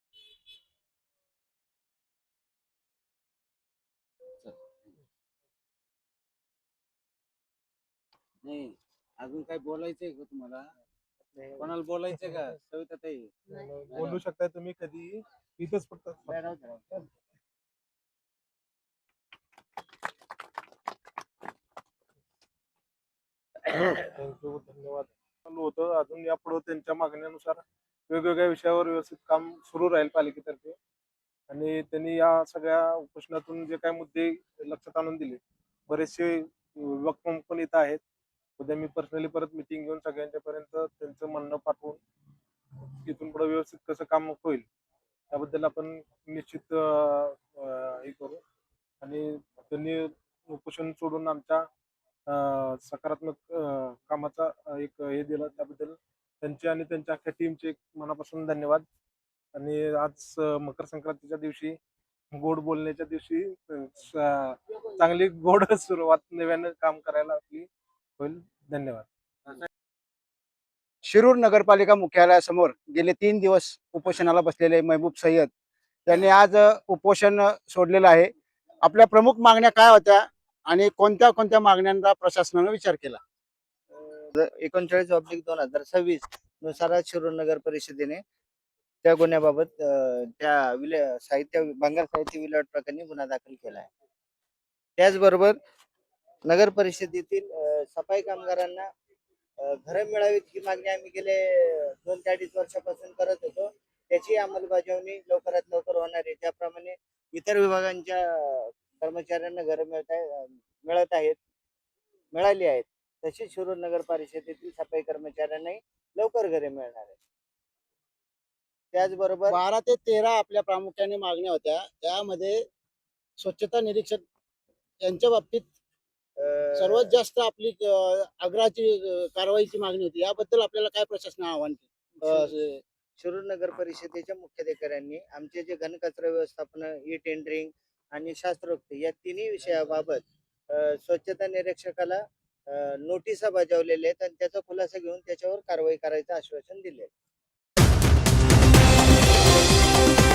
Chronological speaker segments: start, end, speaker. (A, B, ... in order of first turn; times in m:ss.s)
0:04.4-0:04.9 A
0:08.4-0:10.7 A
0:11.3-0:11.7 B
0:11.6-0:14.2 A
0:13.6-0:16.4 C
0:16.3-0:17.0 B
0:24.1-0:30.8 C
0:31.5-0:38.0 C
0:38.6-0:42.0 C
0:43.0-0:44.7 C
0:45.3-0:48.4 C
0:49.0-0:51.7 C
0:52.3-0:58.9 C
0:59.5-1:01.8 C
1:02.3-1:09.1 C
1:11.0-1:15.5 D
1:16.1-1:18.3 D
1:18.8-1:23.2 D
1:24.3-1:28.2 B
1:29.0-1:33.9 B
1:35.0-1:35.6 B
1:36.4-1:38.9 B
1:39.6-1:51.4 B
1:52.3-1:57.2 B
1:58.9-1:59.6 B
1:59.5-2:02.6 D
2:03.4-2:04.2 D
2:05.0-2:05.7 D
2:06.4-2:07.2 B
2:06.8-2:12.8 D
2:12.2-2:12.7 B
2:13.2-2:27.1 B